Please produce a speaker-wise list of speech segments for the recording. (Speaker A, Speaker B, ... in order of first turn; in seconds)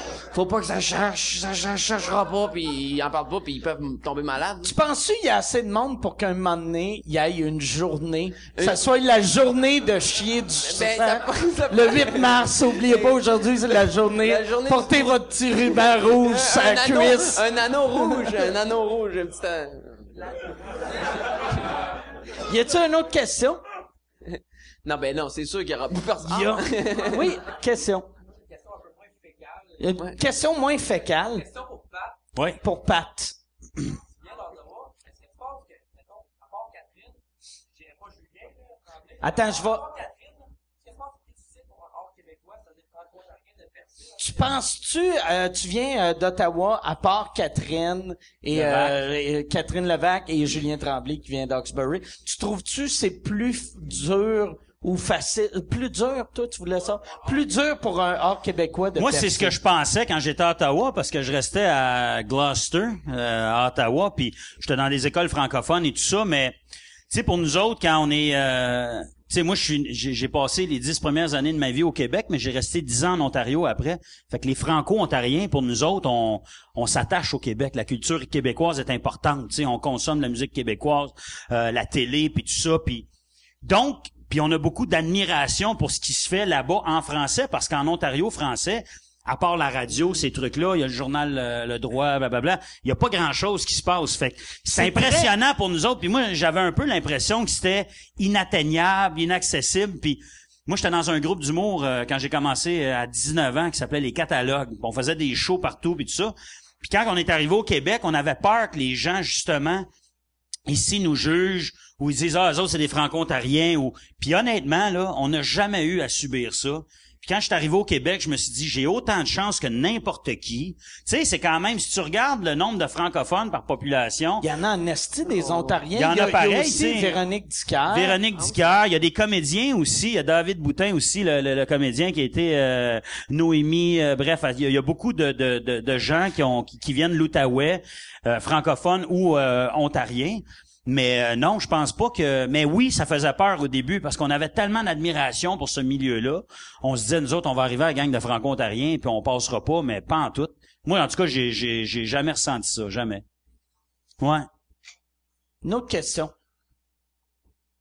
Speaker A: 0.3-4.7, 8.5-8.8, 10.6-15.1, 15.7-20.2, 24.2-27.2, 125.3-125.8, 128.3-128.6
Speaker B: 4.6-17.4, 18.0-18.4, 22.4-23.6, 26.2-28.1, 29.8-31.4, 32.6-33.3, 39.2-39.9, 44.2-59.5, 94.7-95.3, 124.4-128.2, 155.6-156.3
Speaker C: 28.3-29.9, 31.3-32.2, 34.2-37.2, 37.7-44.5
Speaker D: 48.5-49.0, 59.0-66.6, 67.1-83.1, 83.6-109.9, 110.7-124.4, 125.9-127.2, 127.9-153.2, 154.2-154.5